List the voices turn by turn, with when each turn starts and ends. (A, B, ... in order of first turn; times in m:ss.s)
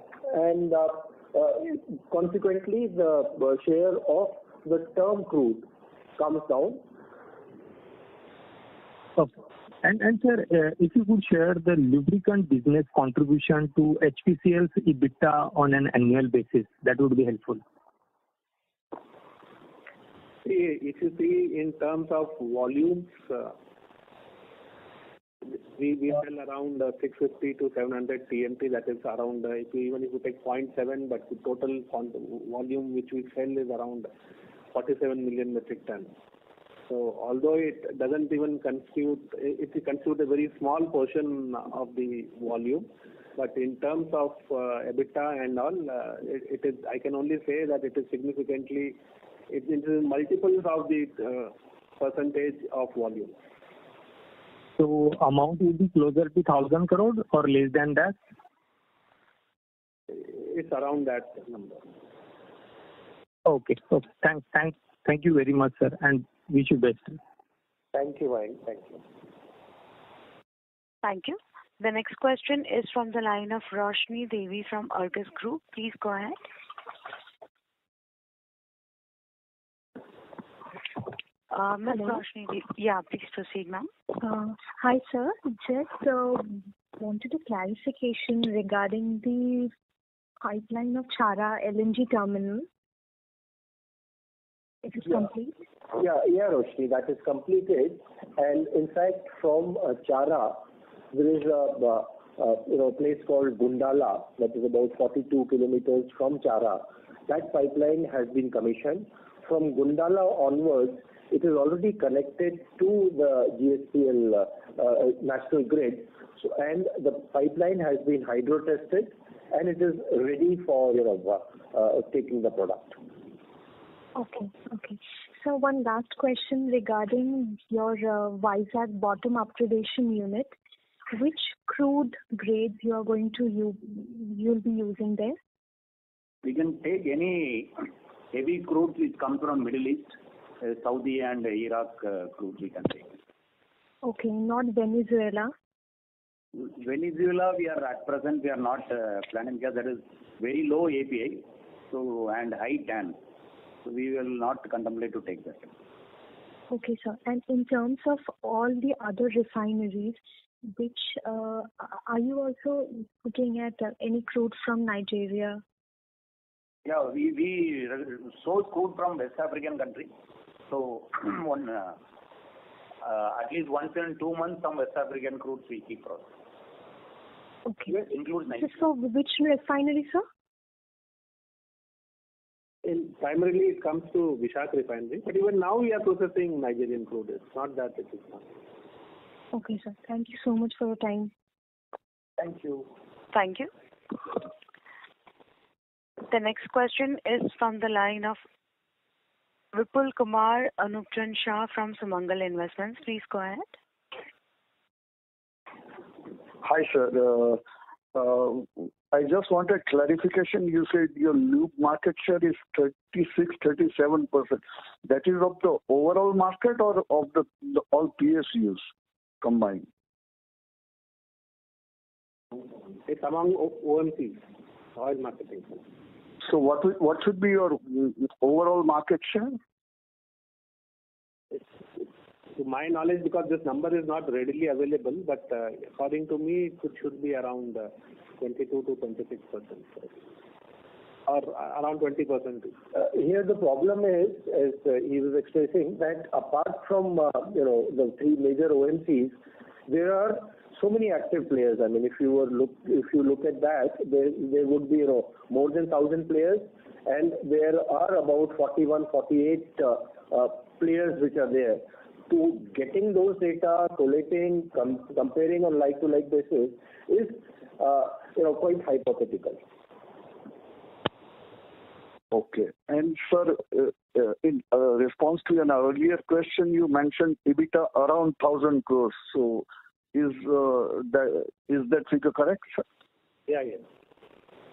0:00.3-0:06.8 A
0:09.8-0:17.6 B
0:20.4-0:23.6 C
0:25.5-0:34.1 C
0:34.7-0:36.1 C
0:36.9-0:49.0 C
0:49.5-0:53.4 C
0:54.8-0:58.2 B
1:00.1-1:01.8 C
1:03.4-1:07.2 B
1:07.9-1:09.0 A
1:11.0-1:16.4 D
1:21.5-1:23.9 D
1:21.9-1:22.2 E
1:24.2-1:29.7 E
1:30.4-1:32.7 E
1:34.8-1:35.5 E
1:36.0-1:40.6 A
1:41.1-2:03.0 A
2:04.2-2:10.5 E
2:11.1-2:15.4 E
2:16.4-2:17.8 F
2:18.3-2:23.1 F
2:24.0-2:25.5 E
2:26.6-2:33.2 F
2:33.8-2:35.7 F
2:36.7-2:45.6 E
2:46.8-2:50.1 F
2:50.7-2:52.0 F
2:53.0-2:56.3 F
2:57.7-2:58.0 E
2:57.9-2:58.8 F
2:58.6-3:00.2 E
3:02.8-3:08.5 C
3:09.5-3:11.3 E
3:12.4-3:12.9 A
3:13.3-3:13.7 D
3:16.3-3:18.4 D
3:19.7-3:23.8 D
3:26.6-3:27.6 G
3:28.1-3:38.9 G
3:39.4-3:39.8 G
3:43.1-3:44.4 C
3:45.0-3:45.8 C
3:46.4-3:49.6 G
3:52.6-4:00.1 C
4:01.3-4:02.8 C
4:02.9-4:09.4 A
4:09.9-4:29.6 A
4:32.3-4:42.8 G
4:43.5-4:43.8 C